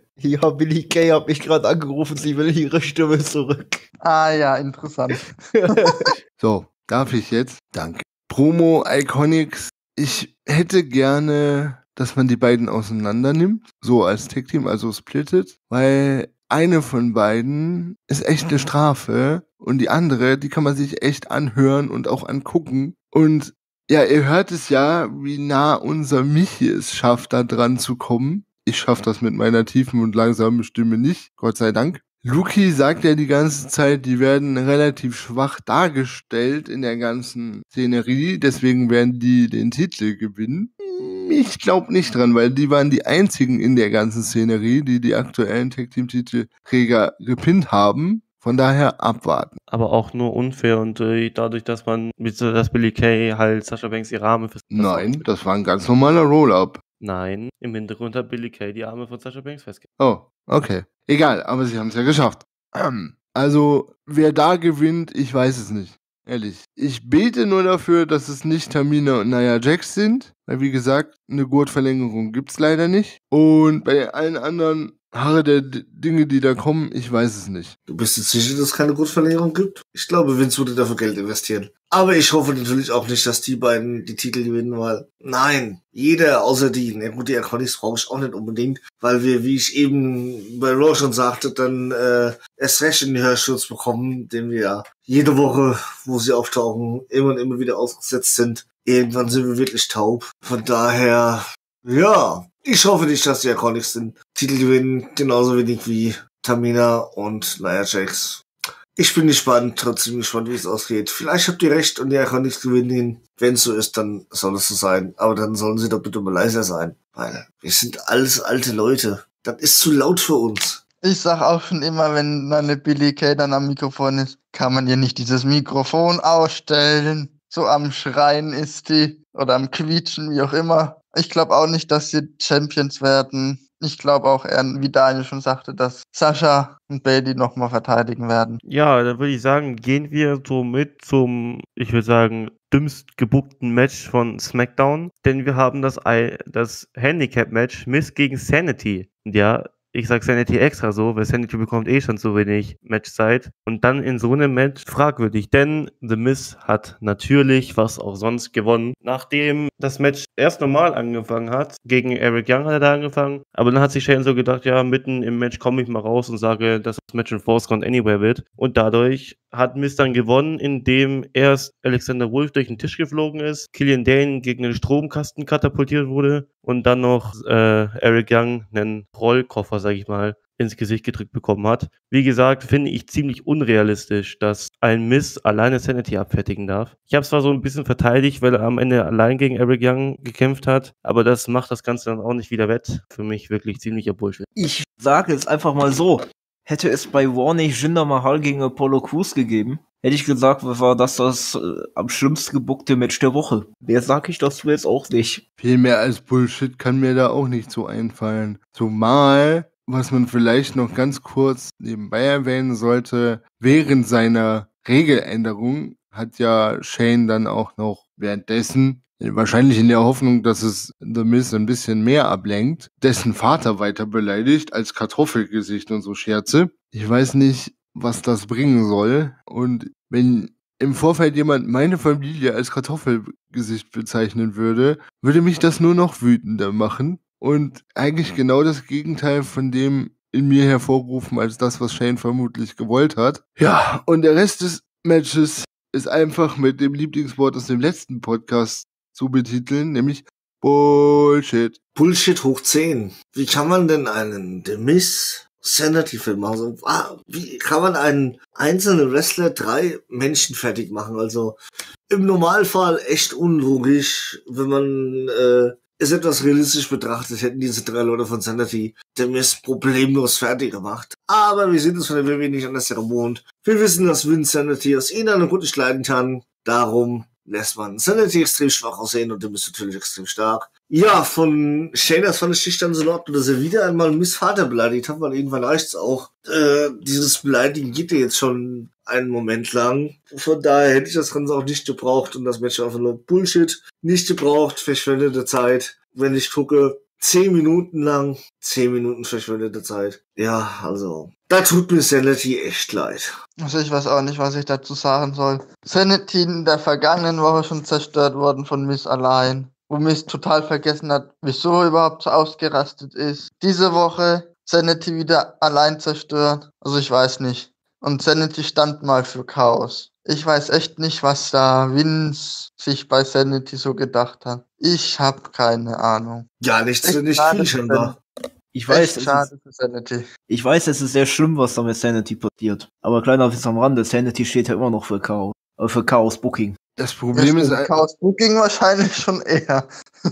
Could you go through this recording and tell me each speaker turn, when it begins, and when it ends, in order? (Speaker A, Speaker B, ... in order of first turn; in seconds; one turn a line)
Speaker A: 0.2-3.6
Speaker B: 4.0-6.1
Speaker A: 5.5-6.1
Speaker C: 6.4-49.5
Speaker D: 49.7-55.2
Speaker C: 54.7-56.8
Speaker D: 57.0-59.8
Speaker C: 60.0-77.7
Speaker E: 77.9-108.4
Speaker E: 109.0-120.8
Speaker B: 121.0-138.6
Speaker D: 138.7-194.4
Speaker A: 194.6-205.4
Speaker C: 205.6-251.8
Speaker E: 251.9-303.3
Speaker B: 303.6-326.5
Speaker E: 326.6-328.2
Speaker B: 327.0-328.2
Speaker A: 328.7-329.5
Speaker B: 328.9-330.3
Speaker A: 330.5-336.8
Speaker C: 337.0-337.9
Speaker B: 337.3-339.9